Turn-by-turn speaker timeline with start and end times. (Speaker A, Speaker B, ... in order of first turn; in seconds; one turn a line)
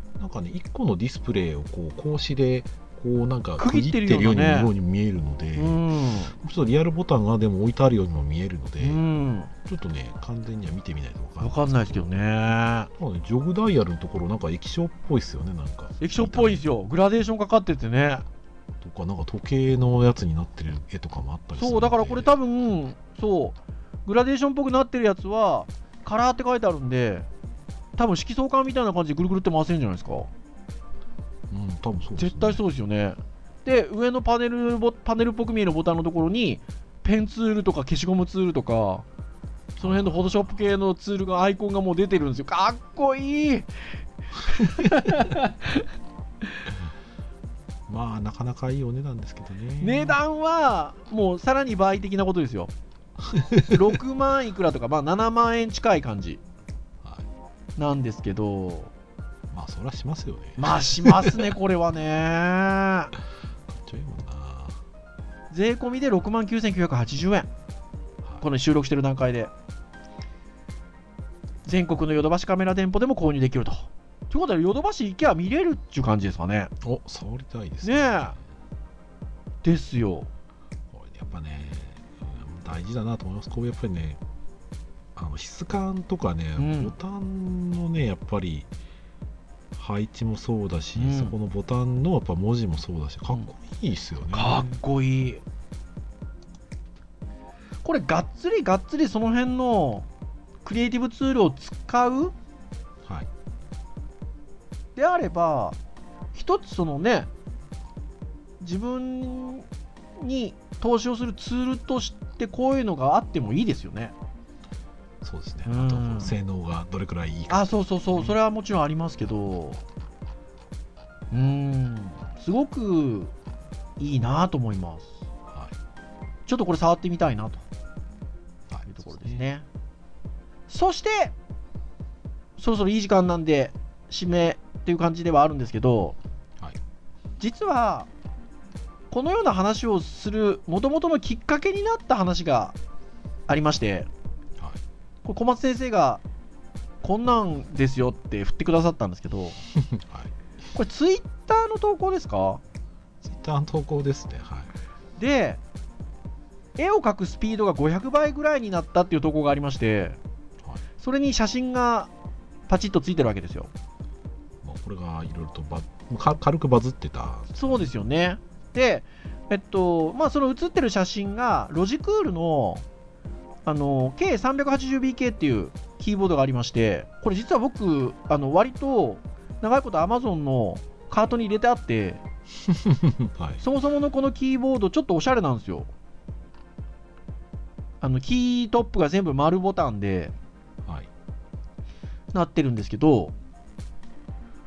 Speaker A: 0.2-5.8
Speaker B: 3.6-4.7
Speaker B: 5.6-6.3
Speaker A: 6.4-9.0
Speaker B: 8.8-9.5
Speaker A: 9.7-12.1
Speaker B: 11.4-12.9
Speaker A: 13.0-16.6
Speaker B: 16.0-18.3
Speaker A: 18.8-22.3
Speaker B: 21.6-27.3
Speaker B: 28.0-30.3
Speaker A: 31.5-32.6
Speaker B: 32.2-39.1
Speaker A: 39.8-40.7
Speaker B: 39.8-43.7
Speaker B: 44.4-45.9
Speaker A: 47.9-50.2
Speaker B: 49.8-52.7
Speaker A: 53.2-53.8
Speaker B: 53.7-56.4
Speaker A: 57.0-57.3
Speaker B: 57.8-58.9
Speaker A: 59.5-61.5
Speaker B: 60.6-63.1
Speaker A: 63.7-64.8
Speaker B: 65.5-67.5
Speaker B: 68.4-69.5
Speaker B: 71.7-76.7
Speaker A: 76.8-78.4
Speaker B: 77.8-78.4
Speaker B: 79.6-80.3
Speaker A: 80.9-84.2
Speaker A: 85.2-88.7
Speaker B: 86.6-86.9
Speaker A: 89.7-94.7
Speaker B: 91.0-91.3
Speaker B: 94.3-95.4
Speaker B: 97.8-100.1
Speaker B: 100.6-102.3
Speaker A: 103.0-103.3
Speaker B: 105.0-105.8
Speaker B: 106.3-107.3
Speaker B: 108.6-109.7
Speaker B: 110.2-114.1
Speaker A: 115.2-118.4
Speaker B: 115.7-116.3
Speaker B: 117.5-119.8
Speaker B: 121.3-123.3
Speaker B: 124.0-125.2
Speaker A: 125.5-125.8
Speaker B: 126.5-127.6
Speaker A: 128.7-129.4
Speaker B: 128.9-129.7
Speaker B: 130.7-131.3
Speaker B: 132.6-136.2
Speaker B: 137.4-138.1
Speaker B: 139.1-142.8
Speaker B: 143.5-144.1
Speaker B: 145.2-146.2
Speaker B: 147.0-149.6
Speaker A: 149.7-150.3
Speaker B: 150.8-152.6
Speaker A: 153.2-154.7
Speaker B: 155.2-155.6
Speaker B: 156.8-160.2
Speaker B: 161.0-162.1
Speaker B: 162.7-163.7
Speaker A: 164.6-167.9
Speaker B: 167.6-172.8
Speaker B: 173.7-182.2
Speaker A: 182.7-183.6
Speaker B: 183.6-185.9
Speaker B: 188.0-190.3
Speaker B: 192.3-193.3